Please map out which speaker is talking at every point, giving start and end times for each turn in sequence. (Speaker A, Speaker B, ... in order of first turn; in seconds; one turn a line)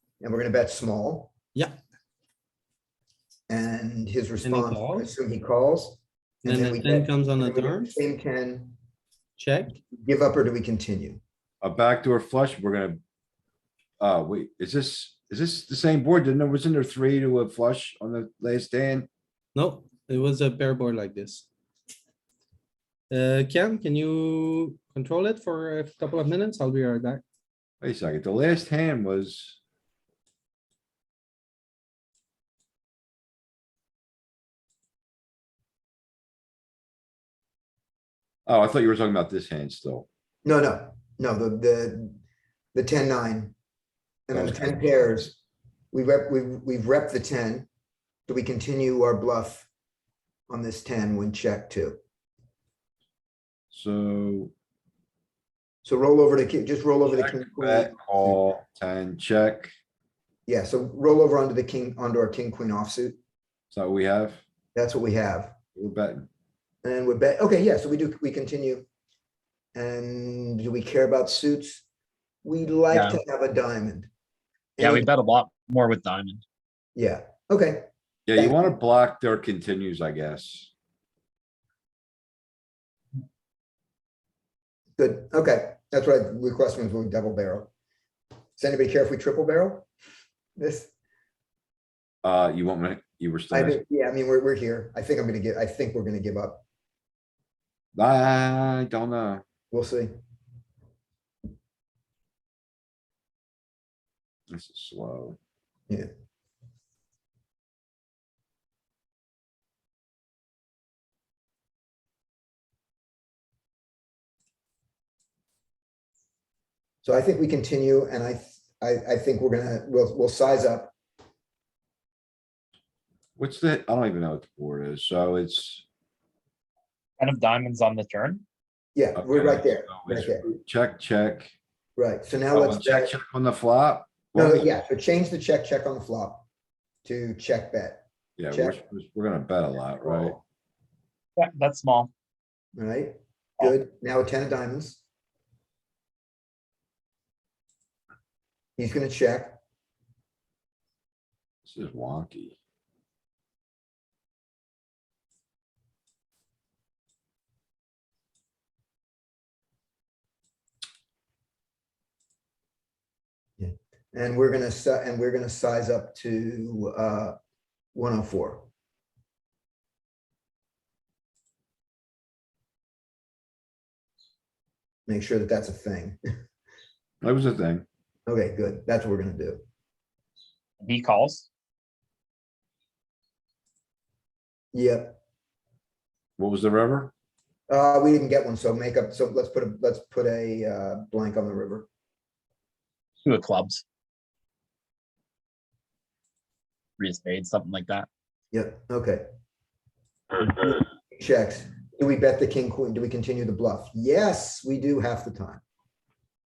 Speaker A: 0.2-1.3
Speaker A: 3.5-8.8
Speaker B: 4.4-5.1
Speaker B: 6.5-8.0
Speaker B: 9.4-9.8
Speaker A: 9.9-11.2
Speaker C: 11.6-13.0
Speaker C: 14.0-19.1
Speaker B: 19.6-21.5
Speaker B: 23.1-27.2
Speaker C: 27.8-29.6
Speaker C: 38.5-40.1
Speaker A: 40.5-42.2
Speaker A: 42.7-43.5
Speaker A: 44.3-45.3
Speaker C: 44.3-45.3
Speaker A: 45.9-47.7
Speaker A: 48.3-49.7
Speaker A: 50.5-52.0
Speaker C: 53.7-54.5
Speaker A: 55.8-58.4
Speaker C: 57.0-59.7
Speaker A: 60.5-63.2
Speaker C: 63.7-64.4
Speaker A: 64.8-65.5
Speaker C: 65.8-66.3
Speaker A: 66.8-68.8
Speaker A: 69.8-71.8
Speaker A: 72.4-74.1
Speaker D: 72.9-73.2
Speaker A: 74.8-75.1
Speaker D: 74.8-76.4
Speaker A: 77.0-78.7
Speaker C: 78.3-80.7
Speaker A: 85.0-87.7
Speaker A: 88.6-89.9
Speaker A: 90.6-90.9
Speaker C: 92.2-93.8
Speaker A: 93.5-96.6
Speaker C: 98.0-99.4
Speaker A: 99.7-100.1
Speaker C: 104.5-105.4
Speaker A: 117.0-120.9
Speaker C: 123.4-125.8
Speaker D: 127.2-128.4
Speaker A: 128.9-130.4
Speaker C: 129.2-131.5
Speaker A: 132.0-133.1
Speaker C: 132.5-134.8
Speaker A: 134.3-136.4
Speaker A: 137.0-138.8
Speaker C: 138.4-140.4
Speaker A: 140.0-140.4
Speaker D: 141.4-142.1
Speaker A: 142.8-145.0
Speaker A: 148.8-149.6
Speaker C: 151.7-152.6
Speaker A: 163.6-167.4
Speaker A: 167.9-168.7
Speaker A: 175.1-176.2
Speaker C: 177.2-177.8
Speaker A: 178.3-179.6
Speaker D: 180.8-181.5
Speaker A: 184.7-185.2
Speaker C: 186.4-187.1
Speaker A: 187.7-191.9
Speaker D: 193.2-193.8
Speaker D: 197.0-198.1
Speaker A: 198.5-199.3
Speaker A: 200.3-205.6